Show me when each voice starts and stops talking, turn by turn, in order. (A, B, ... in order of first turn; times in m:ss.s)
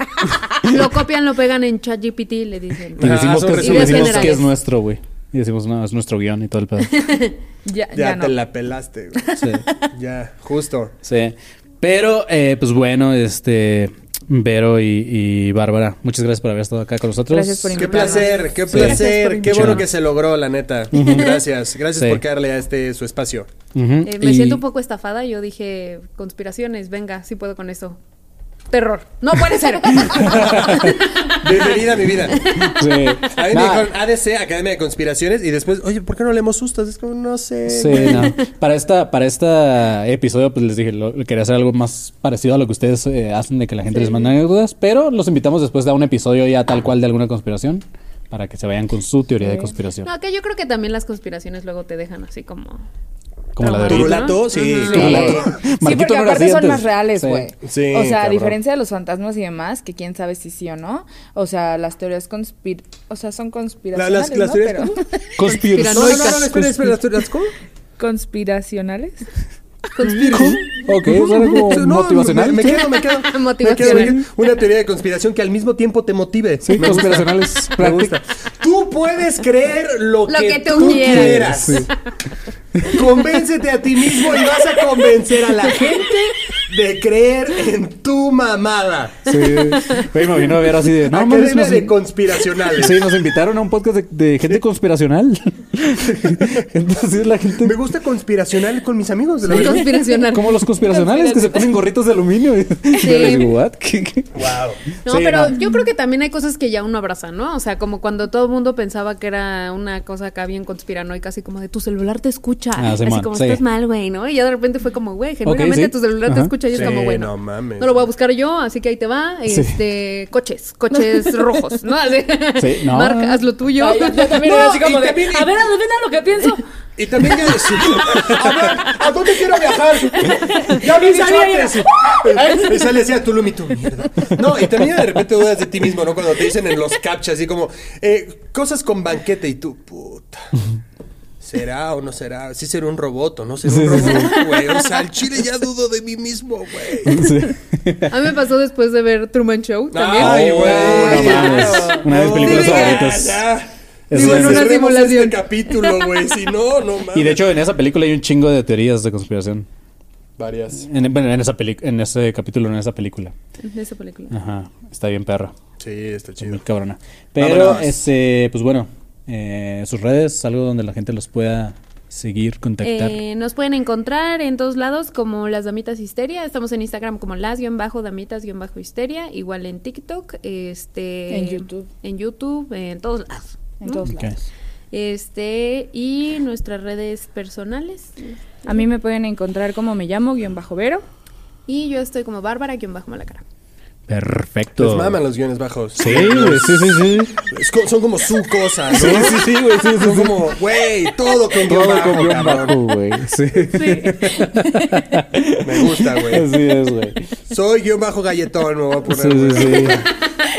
0:00.6-0:04.5 A
0:03.0-0:04.4 B
0:03.0-0:06.9 C
0:06.8-0:07.4 A
0:07.6-0:08.3 D
0:07.9-0:10.9 B
0:09.2-0:09.7 D
0:09.4-0:09.6 C
0:11.0-0:17.8 C
0:17.3-0:18.4 D
0:17.7-0:23.5 B
0:17.8-0:19.8 A
0:18.7-0:19.9 C
0:19.0-0:19.3 D
0:20.9-0:21.4 C
0:20.9-0:21.3 A
0:21.9-0:22.2 C
0:23.7-0:24.6 C
0:24.0-0:28.0 A
0:28.7-0:31.3 A
0:30.0-0:31.0 C
0:30.2-0:32.5 B
0:32.4-0:32.8 A
0:32.4-0:33.9 C
0:33.3-0:38.4 B
0:37.7-0:50.1 C
0:49.4-0:49.7 D
0:50.0-0:52.8 A
0:53.6-0:57.5 C
0:53.6-0:55.3 A
0:53.8-0:55.6 B
0:54.6-1:05.0 D
0:57.6-0:58.6 B
1:03.9-1:05.0 B
1:05.4-1:07.0 C
1:05.4-1:06.5 A
1:05.9-1:07.5 B
1:08.0-1:09.2 D
1:10.0-1:10.7 A
1:10.0-1:10.6 B
1:10.3-1:13.1 C
1:11.1-1:21.9 B
1:13.2-1:14.2 A
1:13.7-1:14.1 C
1:16.6-1:18.2 C
1:20.3-1:21.8 A
1:20.7-1:21.9 C
1:22.8-1:23.0 C
1:22.9-1:29.3 B
1:24.4-1:24.7 A
1:29.2-1:32.0 C
1:29.3-1:30.0 A
1:31.1-1:33.0 B
1:32.8-1:37.8 C
1:37.6-1:39.9 B
1:39.4-1:44.4 C
1:39.5-1:40.6 A
1:40.8-1:41.7 D
1:43.0-1:43.6 A
1:44.3-1:44.8 B
1:45.0-1:45.6 C
1:45.0-2:04.7 A
1:45.6-1:45.8 D
1:52.8-1:53.6 C
1:55.4-1:57.0 C
1:56.7-1:58.1 B
1:59.5-1:59.8 C
2:02.6-2:03.4 C
2:03.8-2:06.6 D
2:04.4-2:05.6 B
2:07.0-2:20.5 B
2:07.5-2:08.6 C
2:10.2-2:12.7 D
2:21.4-2:27.2 B
2:23.6-2:24.4 C
2:24.0-2:24.8 A
2:27.0-2:28.1 C
2:28.1-2:33.1 A
2:29.9-2:37.4 B
2:30.1-2:33.5 C
2:34.1-2:34.7 C
2:34.1-2:36.2 A
2:37.1-2:39.7 C
2:40.4-2:40.8 B
2:40.8-2:43.3 C
2:43.6-2:44.3 A
2:44.3-2:45.5 C
2:45.8-2:46.6 B
2:46.4-2:53.2 C
2:47.4-2:47.9 B
2:52.8-3:04.0 A
3:01.3-3:01.9 D
3:03.8-3:04.5 D
3:04.0-3:04.3 C
3:04.9-3:08.8 A
3:08.6-3:11.0 D
3:11.7-3:13.4 A
3:14.1-3:15.2 C
3:14.8-3:22.8 B
3:16.0-3:17.3 C
3:18.9-3:20.5 C
3:21.6-3:27.3 C
3:25.6-3:26.5 B
3:27.5-3:30.0 B
3:29.1-3:30.1 C